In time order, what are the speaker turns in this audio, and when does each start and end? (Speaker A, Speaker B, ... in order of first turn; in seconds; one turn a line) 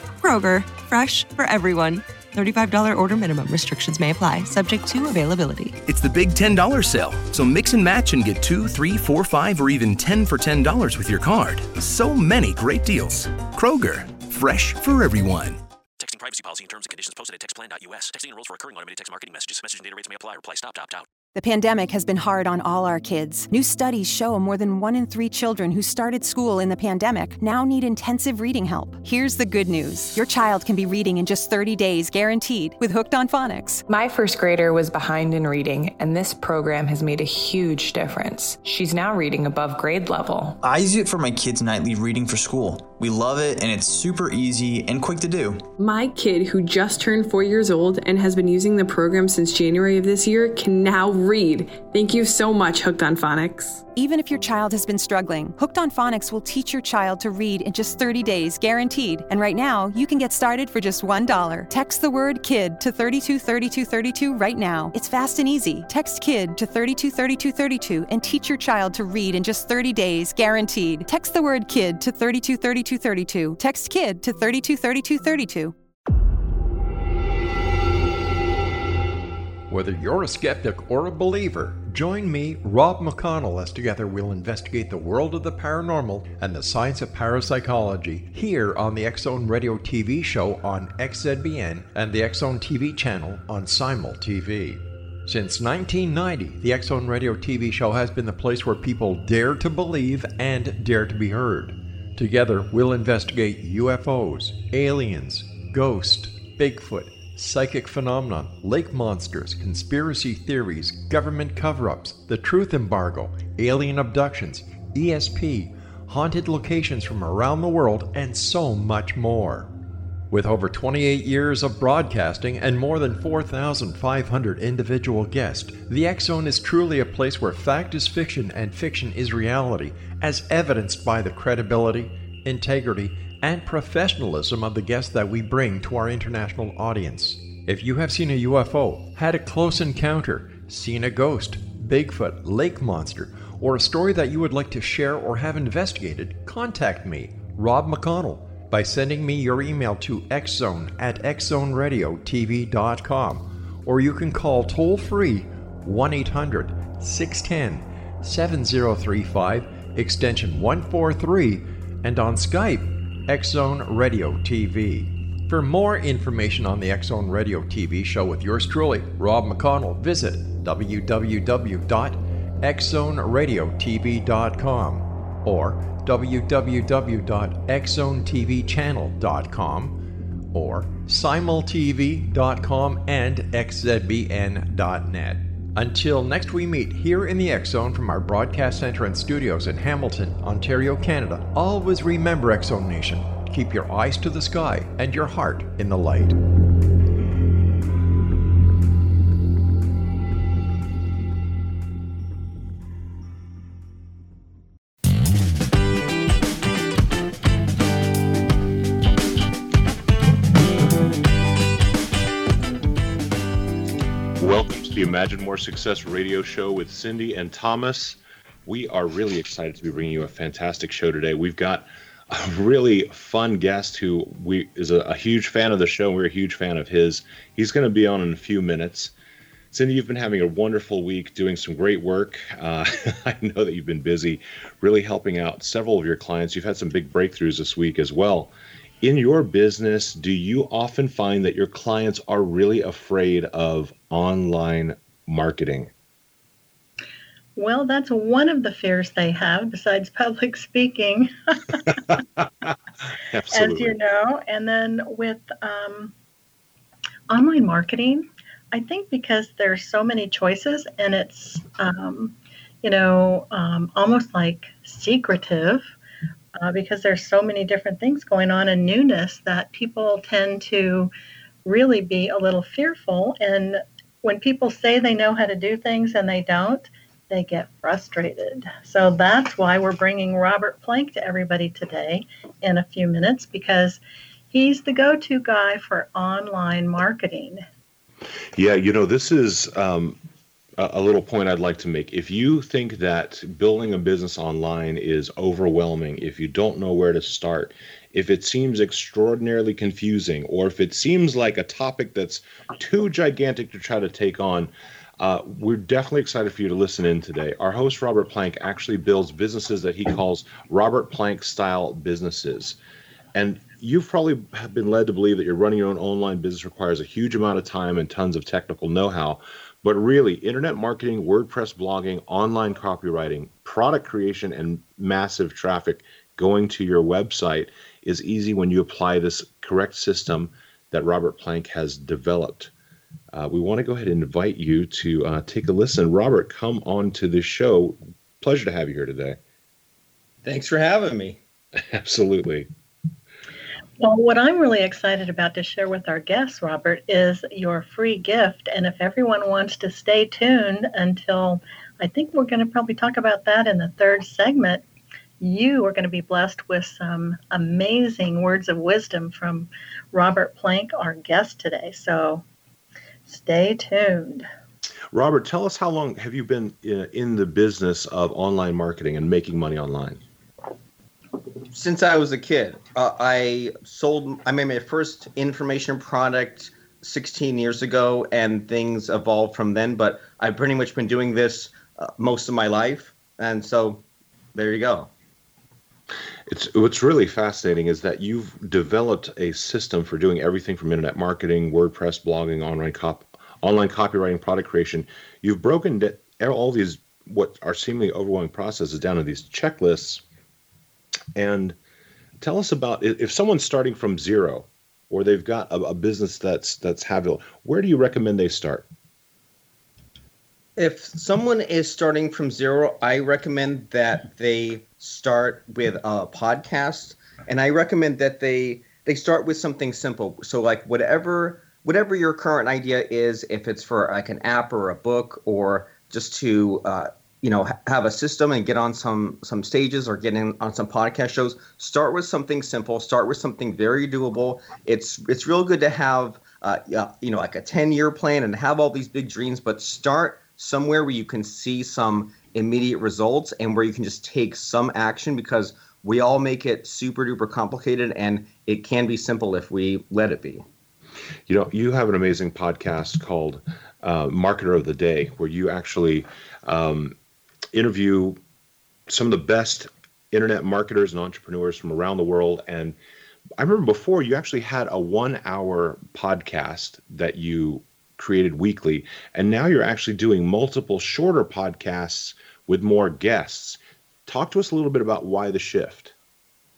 Speaker A: 0.2-5.8
Speaker B: 5.8-15.6
Speaker C: 16.0-21.1
Speaker D: 21.3-33.8
Speaker E: 33.9-40.6
Speaker F: 40.6-45.6
Speaker G: 45.8-53.8
Speaker D: 54.0-75.7
Speaker H: 79.7-119.7
Speaker H: 120.3-180.0
Speaker H: 180.5-196.4
Speaker I: 214.4-229.1
Speaker I: 229.7-245.9
Speaker J: 247.6-251.9
Speaker I: 252.4-252.7
Speaker I: 253.3-253.9
Speaker J: 253.5-256.1
Speaker J: 257.3-265.9
Speaker J: 266.6-271.1
Speaker J: 271.6-284.0
Speaker J: 284.5-287.6
Speaker I: 288.5-290.2
Speaker I: 290.8-312.8
Speaker I: 313.3-332.7
Speaker I: 333.3-339.4
Speaker K: 340.4-341.4
Speaker I: 341.8-342.7
Speaker J: 344.0-354.8
Speaker J: 355.4-362.4
Speaker J: 363.2-364.4
Speaker I: 365.1-370.2
Speaker K: 371.7-384.0
Speaker K: 384.5-385.1
Speaker I: 386.5-400.2
Speaker I: 401.3-401.8
Speaker I: 402.4-408.9
Speaker K: 410.8-450.6
Speaker I: 451.5-457.1
Speaker I: 457.7-458.4
Speaker I: 459.1-462.9
Speaker I: 463.6-476.1